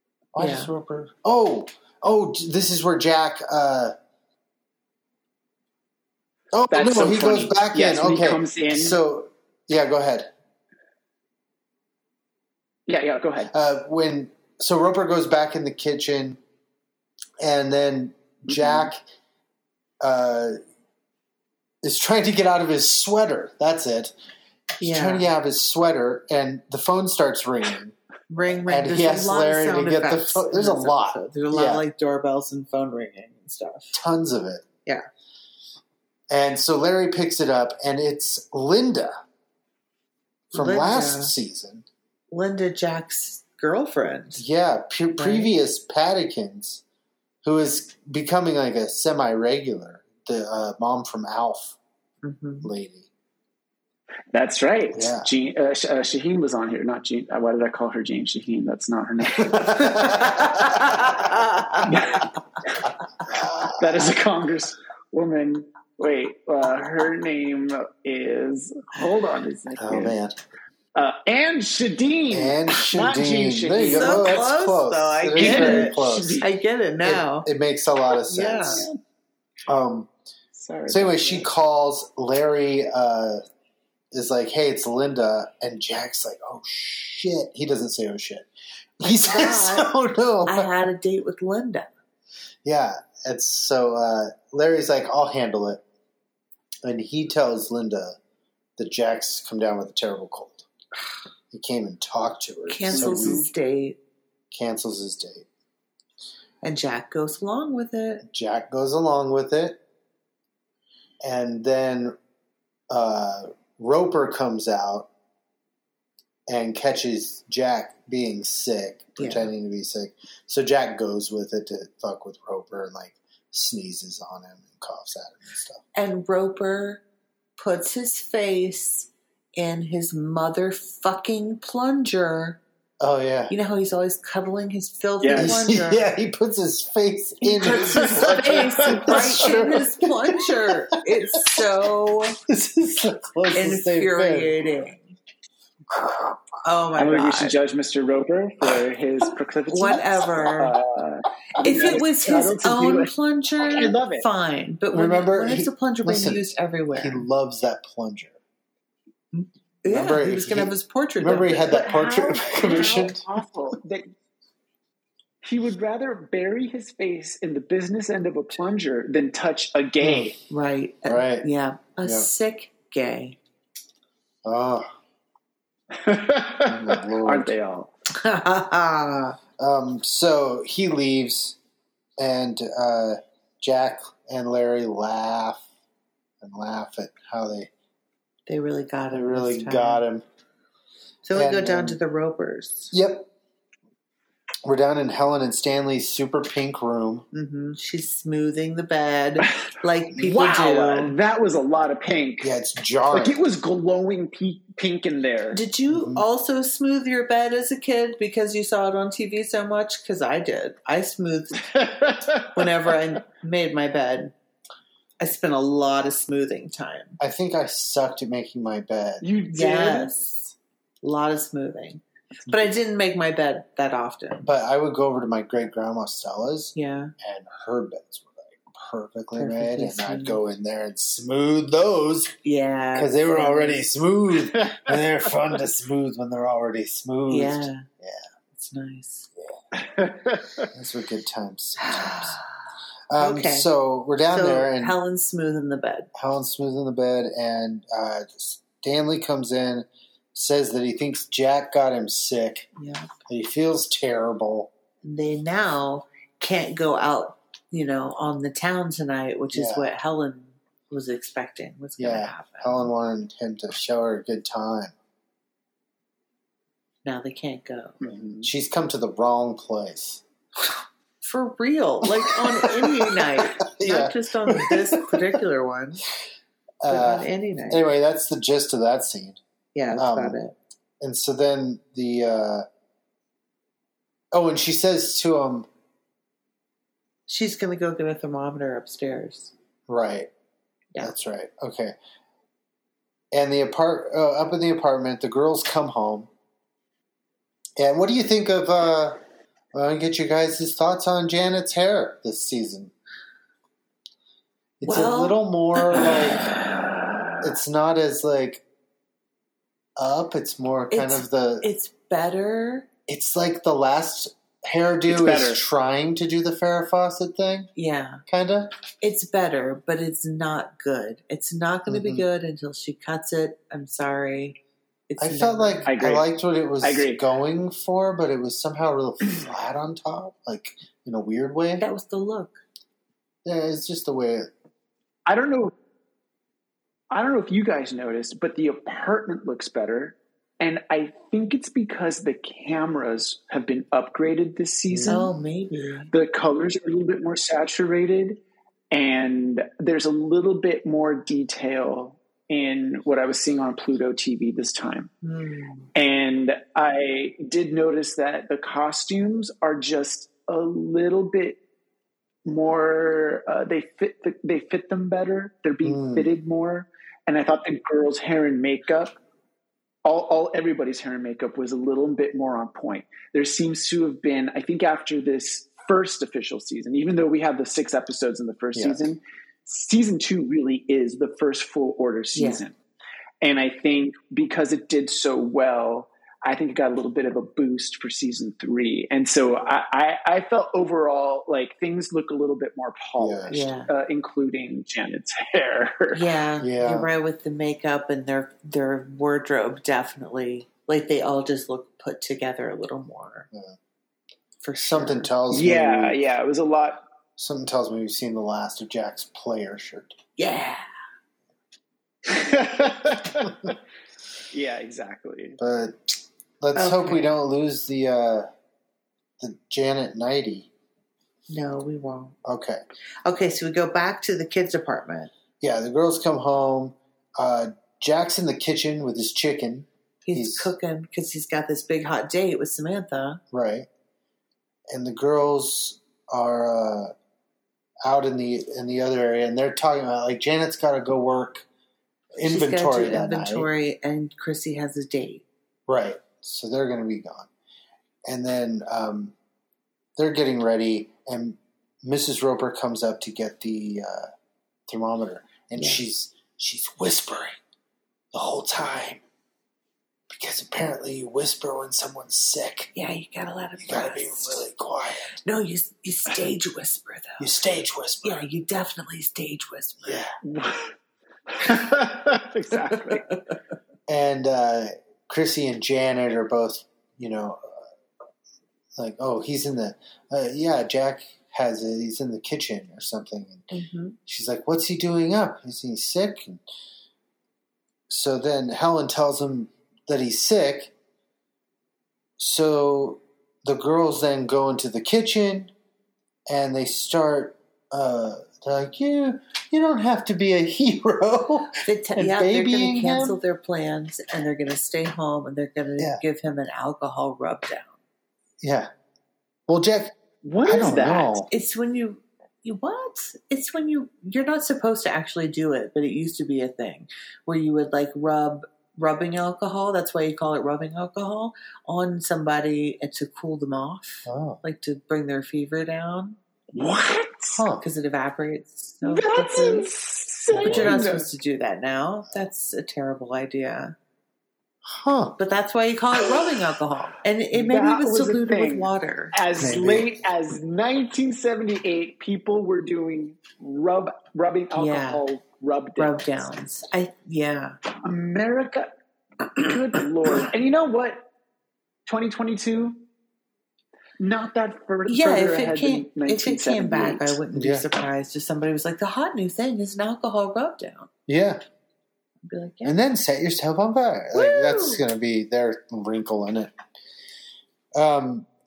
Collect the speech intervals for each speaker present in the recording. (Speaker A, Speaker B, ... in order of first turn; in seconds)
Speaker A: 0.3-3.9, 6.5-10.3, 13.5-16.4, 17.4-19.0, 20.0-20.6, 21.8-24.1, 24.8-27.9, 28.6-31.8, 33.9-34.6, 36.3-39.2, 40.5-41.9, 44.4-46.8, 47.4-51.8, 52.6-53.1, 54.9-55.3, 59.4-61.2, 63.3-64.1, 69.8-70.3, 72.3-76.4, 77.0-78.9, 79.7-80.1, 80.9-83.4, 84.1-88.5, 89.0-90.9, 92.6-95.8, 96.8-98.2, 98.8-100.7, 101.5-103.5, 104.5-105.5, 108.2-109.8, 111.2-112.2, 112.9-115.1, 116.5-125.8, 133.0-133.5, 135.3-140.5, 142.5-144.5, 145.9-146.3, 154.9-158.4, 159.8-163.2, 170.0-170.3, 171.1-171.4, 174.4-174.9, 176.7-177.5, 179.6-181.6, 182.2-185.7, 186.4-187.7, 189.1-190.2, 191.3-192.0, 192.9-193.3, 194.6-197.2, 202.4-203.4, 205.9-206.2, 217.2-219.2, 224.4-232.3, 232.9-238.2, 240.7-242.4, 243.1-244.9, 246.1-252.7, 253.3-254.7, 259.5-259.9, 262.0-264.9, 268.3-270.2, 272.1-275.4, 276.8-279.4, 279.9-280.4, 281.0-282.6, 284.3-285.7, 289.9-290.3, 291.0-291.9, 293.3-296.3, 297.8-299.2, 299.7-302.9, 304.8-306.5, 307.4-308.6, 310.0-311.7, 313.1-317.7, 318.3-318.7, 321.9-322.2, 325.2-331.8, 333.4-334.5, 344.9-345.2, 365.8-366.3, 378.7-379.1, 393.2-393.6, 396.6-397.1, 404.8-406.2, 407.4-410.1, 415.6-418.5, 419.4-420.7, 422.4-422.8, 425.6-430.7, 433.5-433.9, 434.9-437.1, 438.0-441.6, 442.4-443.7, 445.9-447.5, 448.2-449.3, 450.2-454.3, 454.9-457.6, 458.3-459.2, 460.3-462.9, 463.8-465.3, 467.4-468.4, 470.0-470.3, 474.1-477.8, 478.9-483.7, 484.2-486.6, 488.1-490.9, 492.4-495.7, 496.5-503.4, 508.6-508.9, 509.7-511.5, 524.2-524.6, 527.5-527.8, 530.6-531.0, 534.9-535.4, 539.6-540.1, 557.5-557.8, 561.3-561.6, 562.8-566.7, 567.9-568.5
Speaker B: 0.4-0.7, 24.8-25.3, 28.3-34.0, 40.5-41.3, 42.3-44.4, 45.1-45.5, 52.2-52.7, 60.3-61.9, 73.8-77.5, 78.3-78.8, 89.0-89.9, 90.4-91.9, 102.7-104.0, 106.6-108.2, 119.2-119.5, 125.9-127.0, 127.6-132.6, 133.5-136.1, 137.4-142.4, 143.5-145.1, 146.6-147.5, 149.7-150.8, 151.6-157.2, 159.3-163.1, 170.5-173.4, 178.1-179.4, 188.5-190.0, 191.2-192.9, 197.3-201.1, 205.5-211.7, 212.5-214.3, 215.2-217.2, 219.5-224.5, 226.7-227.1, 229.3-230.4, 232.4-233.8, 237.3-237.8, 238.5-239.3, 241.8-242.5, 243.2-246.1, 252.8-253.1, 255.0-262.9, 267.0-268.0, 271.2-276.0, 276.9-277.8, 279.7-280.5, 287.3-289.5, 304.8-306.5, 310.9-312.9, 317.8-318.2, 319.0-325.9, 331.8-332.6, 345.1-346.1, 355.2-355.9, 382.3-382.6, 393.5-393.9, 396.1-403.5, 404.6-405.3, 410.4-410.8, 416.7-417.3, 421.5-422.4, 423.2-425.3, 430.2-433.4, 442.4-445.4, 455.7-456.0, 462.9-464.7, 465.4-467.5, 468.2-470.2, 483.7-484.2, 501.9-507.9, 511.5-526.4, 527.8-529.9, 530.5-533.9, 535.4-539.4, 544.7-545.2, 546.0-547.8, 555.1-561.1, 562.4-563.0, 564.3-565.0
Speaker C: 6.7-9.0, 12.9-13.5, 18.5-18.9, 54.3-60.5, 61.8-70.1, 70.9-74.5, 75.3-76.5, 78.6-78.9, 80.5-81.5, 102.9-103.5, 135.2-135.5, 137.6-139.5, 146.9-154.3, 162.6-164.1, 165.4-170.4, 175.9-177.9, 200.2-202.5, 203.1-205.6, 211.6-212.9, 219.2-220.1, 234.5-234.8, 239.7-240.7, 268.0-268.5, 315.1-315.6, 325.8-327.2, 335.2-335.7, 337.1-345.3, 346.1-355.1, 355.9-361.6, 362.4-369.1, 370.0-382.7, 383.4-396.2, 405.5-407.0, 412.2-413.8, 414.5-415.6, 470.4-470.9, 471.5-473.3, 510.4-511.4, 526.7-527.6, 529.0-531.3, 537.5-546.2, 548.0-548.9, 549.5-551.2, 552.1-553.0, 554.2-557.4